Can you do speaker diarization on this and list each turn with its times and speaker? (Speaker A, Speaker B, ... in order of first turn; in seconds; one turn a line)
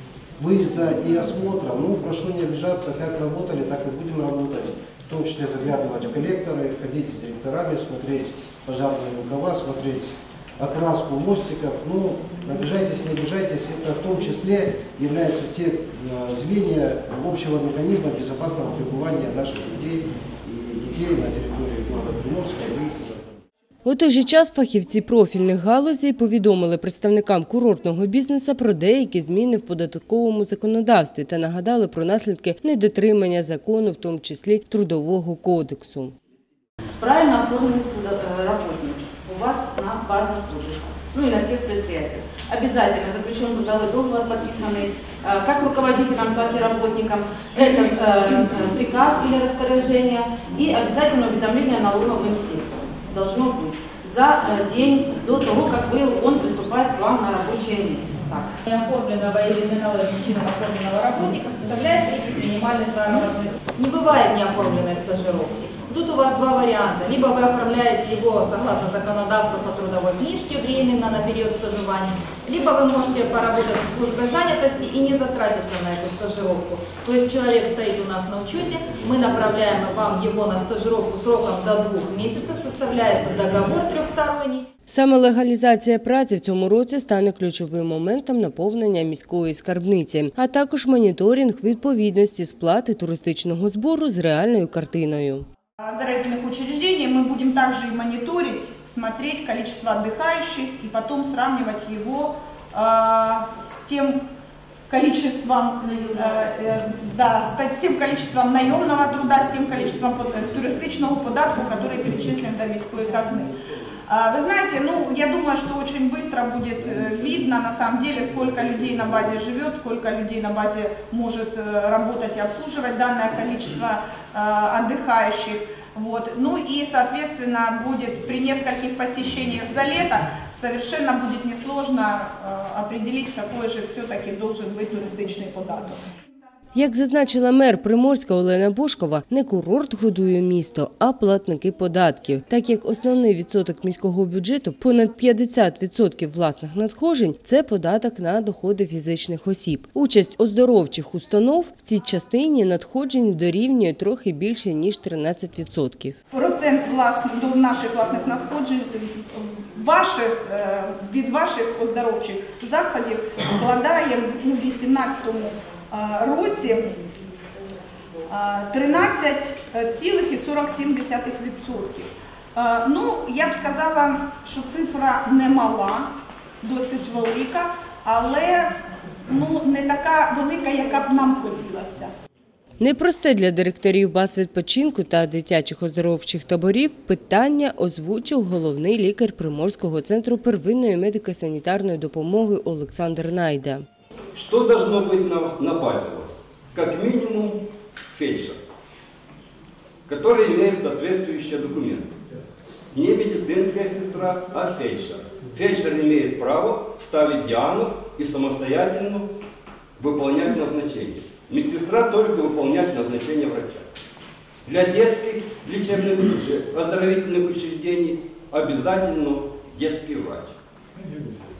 Speaker A: 0.4-23.4
Speaker B: 23.8-36.1
Speaker C: 37.0-58.5
Speaker D: 58.6-84.7
Speaker B: 84.9-95.5
Speaker E: 95.8-104.2
Speaker E: 104.9-113.5
Speaker E: 114.1-136.0
Speaker B: 136.7-156.2
Speaker E: 156.3-166.9
Speaker E: 168.3-176.1
Speaker E: 176.6-178.7
Speaker E: 179.3-182.1
Speaker B: 182.8-193.8
Speaker F: 194.3-197.6
Speaker F: 198.1-198.6
Speaker F: 200.1-202.1
Speaker F: 202.9-209.3
Speaker F: 210.0-213.8
Speaker F: 214.6-220.6